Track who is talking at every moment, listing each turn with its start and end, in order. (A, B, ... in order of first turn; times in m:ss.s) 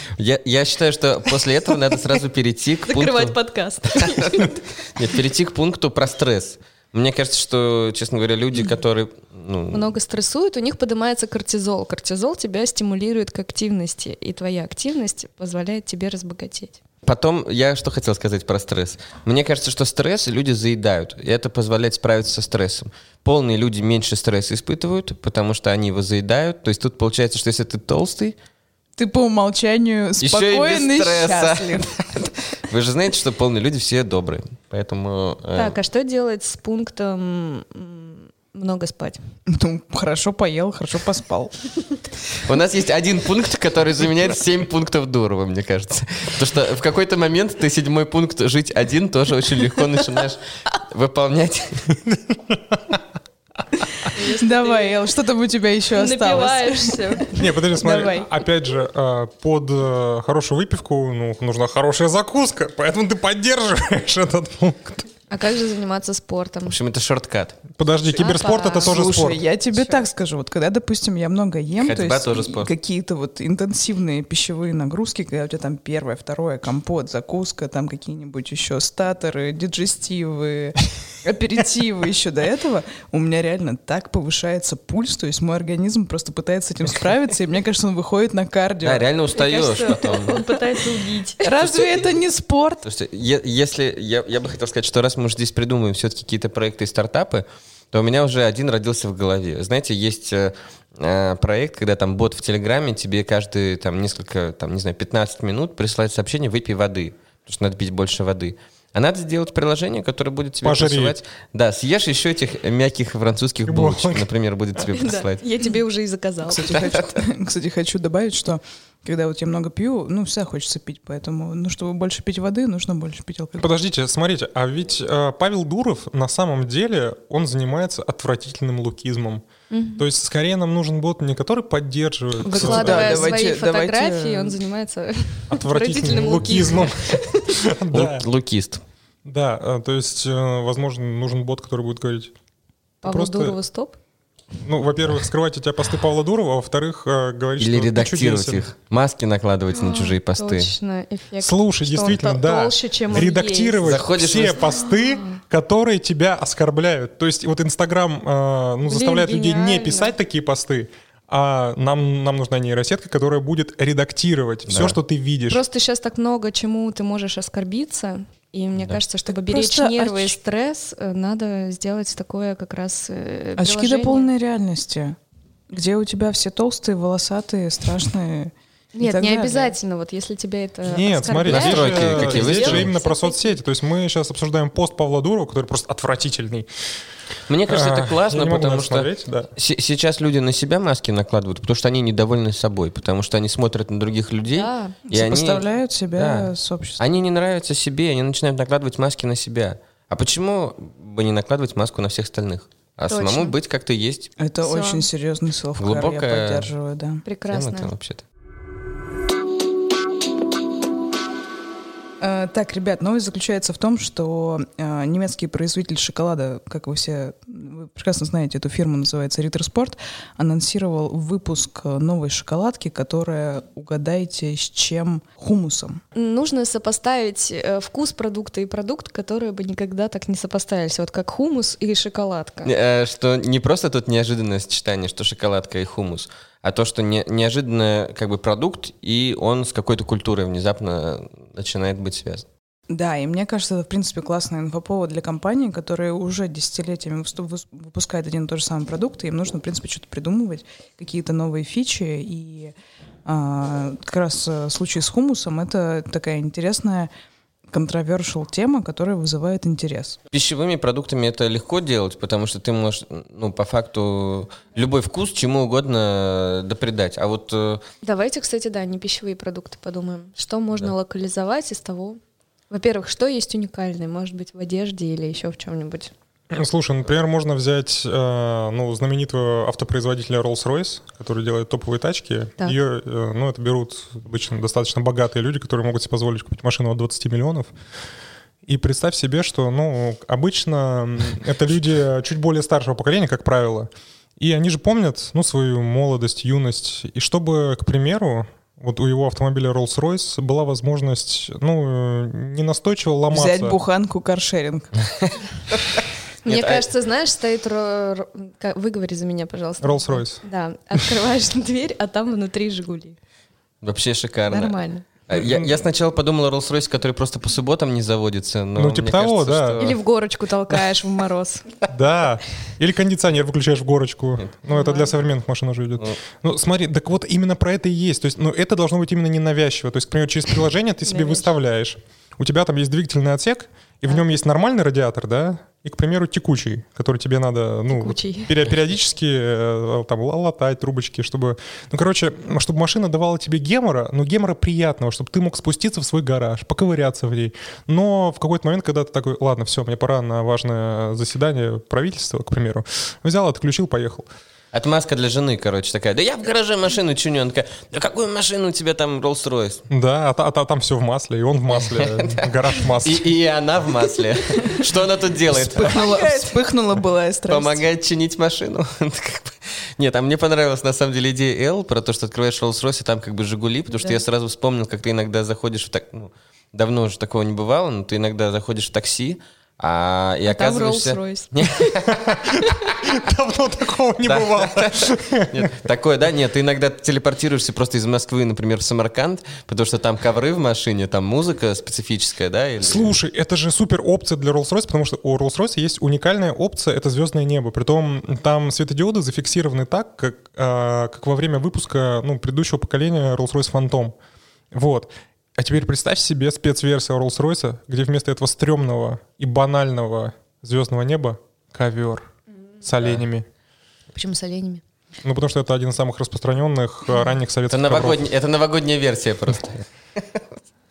0:00.2-0:03.4 A
0:02.9-0:04.6 B
0:03.9-0:09.9 A
0:09.7-0:16.8 B
0:17.0-0:28.4 A
0:29.0-0:31.9 C
0:30.2-0:35.8 A
0:35.5-0:39.2 B
0:39.5-0:41.5 C
0:42.4-0:52.0 A
0:52.1-0:53.0 D
0:54.1-0:55.0 B
0:54.2-0:57.3 C
0:55.9-0:58.3 B
0:57.3-1:05.1 D
1:05.3-1:06.7 B
1:06.7-1:07.6 A
1:07.8-1:09.4 D
1:08.1-1:09.1 B
1:08.8-1:29.0 C
1:09.7-1:10.0 B
1:11.8-1:12.7 A
1:28.8-1:30.4 A
1:29.3-1:31.5 B
1:31.4-1:32.8 C
1:31.6-1:32.1 A
1:32.8-1:55.4 A
1:50.6-1:51.2 D
1:53.6-1:54.3 D
1:54.9-1:56.9 B
1:56.5-2:03.7 C
1:56.7-1:57.1 A
2:03.6-2:09.4 D
2:09.7-2:10.0 B
2:10.0-2:13.3 D
2:12.4-2:17.6 B
2:12.5-2:14.6 C
2:15.5-2:18.2 D
2:17.9-2:18.8 A
2:19.2-2:22.3 D
2:23.0-2:24.0 B
2:23.0-2:23.5 D
2:24.6-2:28.6 D
2:27.6-2:30.7 A
2:29.7-2:33.8 B
2:31.4-2:45.6 D
2:33.8-2:34.8 A
2:34.6-2:35.4 B
2:38.8-2:40.1 B
2:44.7-2:45.0 A
2:45.5-2:54.3 B
2:49.3-2:50.4 C
2:53.6-2:55.2 C
2:55.7-2:59.7 C
2:58.9-3:03.6 B
3:00.8-3:06.7 D
3:01.5-3:02.9 A
3:07.5-3:24.3 A
3:07.7-3:09.5 D
3:14.5-3:14.9 B
3:15.1-3:17.0 C
3:23.1-3:23.5 B
3:24.4-3:27.2 C
3:24.6-3:25.1 B
3:25.8-3:26.7 A
3:27.2-3:27.9 B
3:27.5-3:28.2 A
3:32.2-3:46.0 C
3:46.1-3:52.7 B
3:52.6-4:02.4 A
4:02.9-4:12.7 C
4:13.2-4:17.1 C
4:17.7-4:20.2 C
4:20.3-4:27.8 A
4:28.0-4:36.1 B
4:36.5-4:47.7 D
4:48.6-5:03.8 D
5:03.3-5:04.9 C
5:06.4-5:13.2 B
5:06.4-5:06.8 A
5:09.8-5:10.4 D
5:13.8-5:14.7 A
5:14.5-5:15.0 B
5:15.3-5:20.0 A
5:15.3-5:15.7 D
5:18.7-5:19.8 D
5:19.8-5:21.6 B
5:21.9-5:54.3 D
5:24.7-5:25.1 B
5:31.0-5:31.4 B
5:37.9-5:38.6 B
5:54.7-5:59.8 A
5:59.9-6:03.3 D
6:01.7-6:06.2 A
6:05.5-6:07.8 C
6:06.0-6:06.4 B
6:07.5-6:22.1 A
6:20.5-6:22.0 B
6:22.1-6:25.7 D
6:24.2-6:33.1 A
6:32.8-6:44.1 D
6:44.7-6:52.3 D
6:52.8-6:53.4 D
6:54.1-6:54.8 B
6:55.2-6:58.3 D
6:57.7-7:00.4 A